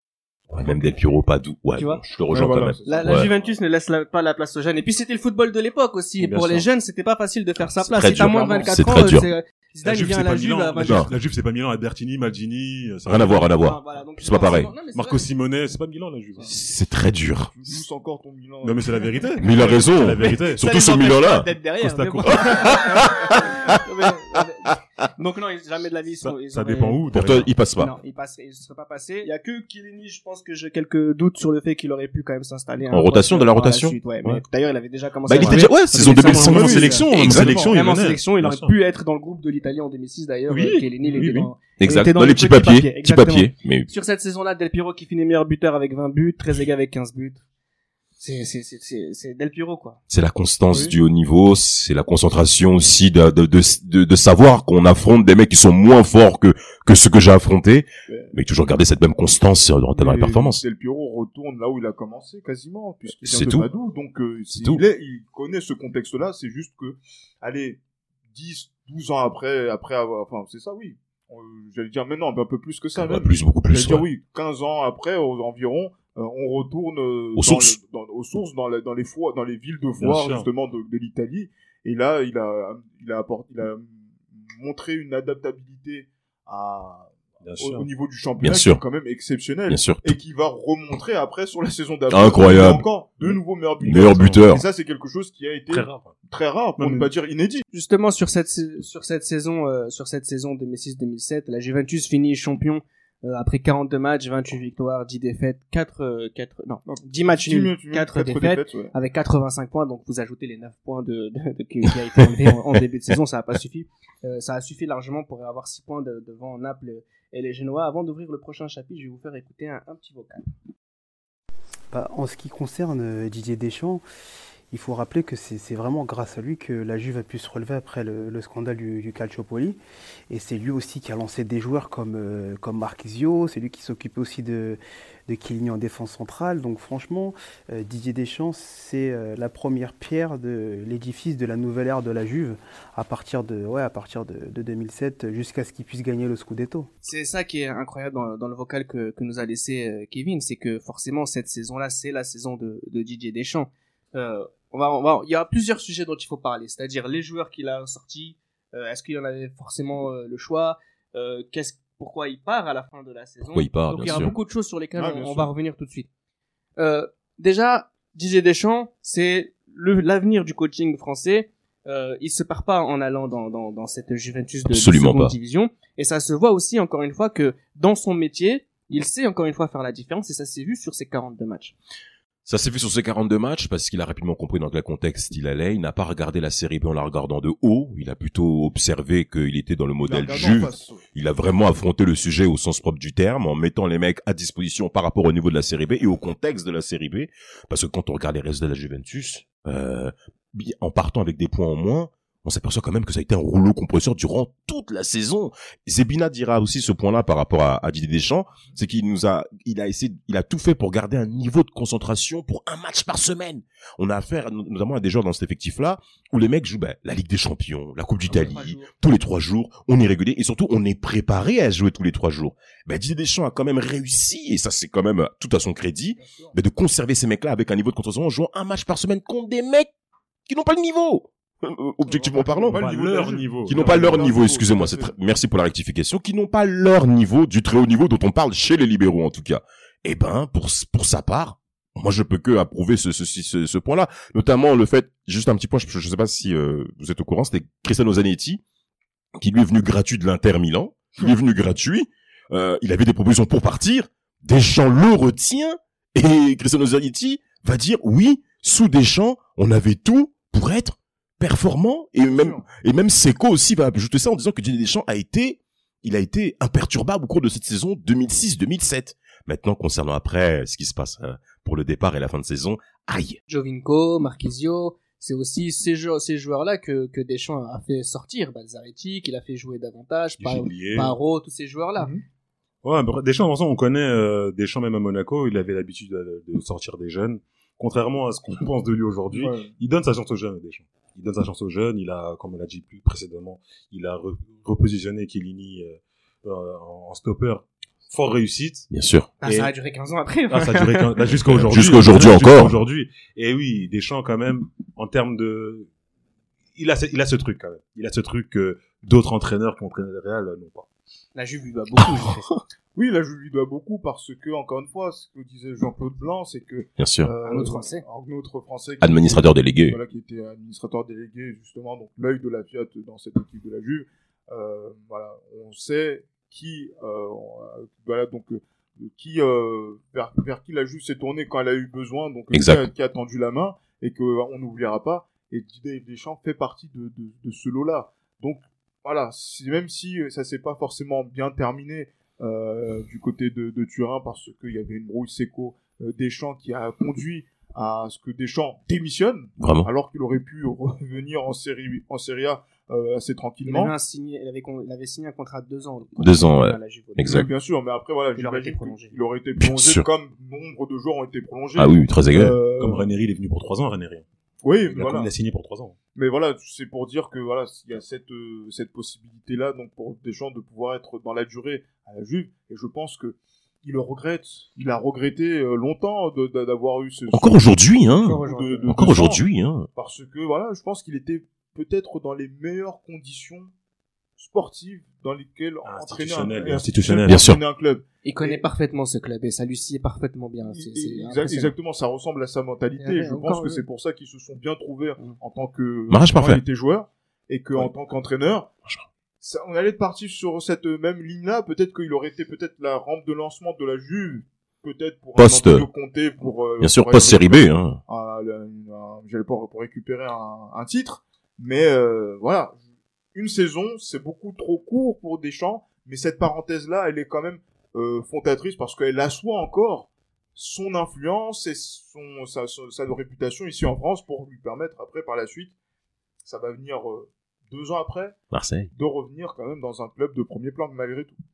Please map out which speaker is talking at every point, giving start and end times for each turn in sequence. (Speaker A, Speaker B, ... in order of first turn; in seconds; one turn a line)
Speaker A: 0.5-3.3
Speaker B: 1.8-2.0
Speaker C: 2.3-3.5
Speaker B: 2.9-11.1
Speaker D: 6.2-6.7
Speaker A: 7.8-9.3
Speaker C: 8.2-8.7
Speaker D: 9.8-13.5
Speaker A: 10.8-11.1
Speaker A: 13.1-14.7
Speaker B: 13.6-15.3
Speaker D: 14.9-16.5
Speaker A: 16.4-17.5
Speaker C: 17.5-19.3
Speaker D: 18.6-20.6
Speaker A: 19.4-21.5
Speaker B: 20.5-27.0
Speaker D: 21.8-22.8
Speaker A: 22.3-23.8
Speaker D: 26.2-27.5
Speaker A: 27.1-27.9
Speaker B: 27.8-47.4
Speaker A: 32.9-34.0
Speaker A: 35.2-37.6
Speaker D: 35.4-38.7
Speaker C: 36.6-37.7
Speaker D: 40.5-41.5
Speaker A: 41.8-43.9
Speaker B: 48.2-50.0
Speaker A: 50.1-60.6
Speaker C: 58.1-58.3
Speaker C: 59.9-67.8
Speaker A: 63.2-63.7
Speaker A: 64.5-64.8
Speaker C: 68.3-84.0
Speaker A: 72.9-74.1
Speaker A: 77.4-77.8
Speaker D: 80.0-80.5
Speaker C: 84.6-97.7
Speaker D: 87.4-87.9
Speaker A: 88.4-88.8
Speaker A: 89.7-90.2
Speaker A: 92.1-92.9
Speaker D: 93.2-94.4
Speaker A: 93.8-94.7
Speaker D: 95.7-96.1
Speaker D: 96.8-97.1
Speaker B: 97.7-120.4
Speaker C: 106.9-108.9
Speaker E: 121.9-124.0
Speaker E: 124.7-129.8
Speaker E: 130.3-146.9
Speaker B: 147.0-166.1
Speaker A: 163.5-164.3
Speaker C: 164.9-165.5
Speaker B: 166.8-181.7
Speaker A: 174.7-175.3
Speaker A: 182.4-229.9
Speaker C: 190.0-191.0
Speaker B: 218.3-218.9
Speaker C: 226.2-226.5
Speaker A: 230.5-232.8
Speaker C: 232.1-235.1
Speaker D: 232.7-234.2
Speaker A: 233.7-248.6
Speaker A: 249.4-273.4
Speaker C: 262.2-262.7
Speaker B: 273.5-282.1
Speaker D: 280.4-281.1
Speaker C: 282.0-282.2
Speaker D: 282.8-298.9
Speaker C: 289.3-289.7
Speaker A: 298.9-299.3
Speaker B: 299.4-301.2
Speaker D: 299.4-299.7
Speaker D: 300.5-305.9
Speaker A: 301.6-302.8
Speaker D: 306.8-310.9
Speaker B: 311.4-312.5
Speaker A: 312.0-312.3
Speaker C: 312.9-353.9
Speaker A: 317.0-317.3
Speaker B: 317.4-318.0
Speaker A: 319.0-320.0
Speaker A: 332.5-332.9
Speaker A: 349.6-349.9
Speaker B: 353.6-357.5
Speaker A: 356.2-357.5
Speaker C: 357.2-363.1
Speaker B: 358.4-359.2
Speaker A: 359.6-360.1
Speaker A: 361.8-362.6
Speaker D: 362.8-364.2
Speaker C: 364.6-365.3
Speaker D: 364.8-365.9
Speaker C: 366.1-379.4
Speaker A: 377.3-379.9
Speaker B: 378.2-378.9
Speaker C: 379.9-383.7
Speaker C: 384.4-388.6
Speaker D: 385.8-387.4
Speaker A: 387.2-387.6
Speaker B: 388.2-391.7
Speaker C: 390.7-398.7
Speaker B: 393.0-393.8
Speaker A: 396.1-396.6
Speaker C: 399.4-412.8
Speaker A: 405.4-405.9
Speaker A: 406.8-408.0
Speaker C: 413.3-425.7
Speaker C: 426.4-428.4
Speaker A: 428.5-428.9
Speaker C: 428.9-431.4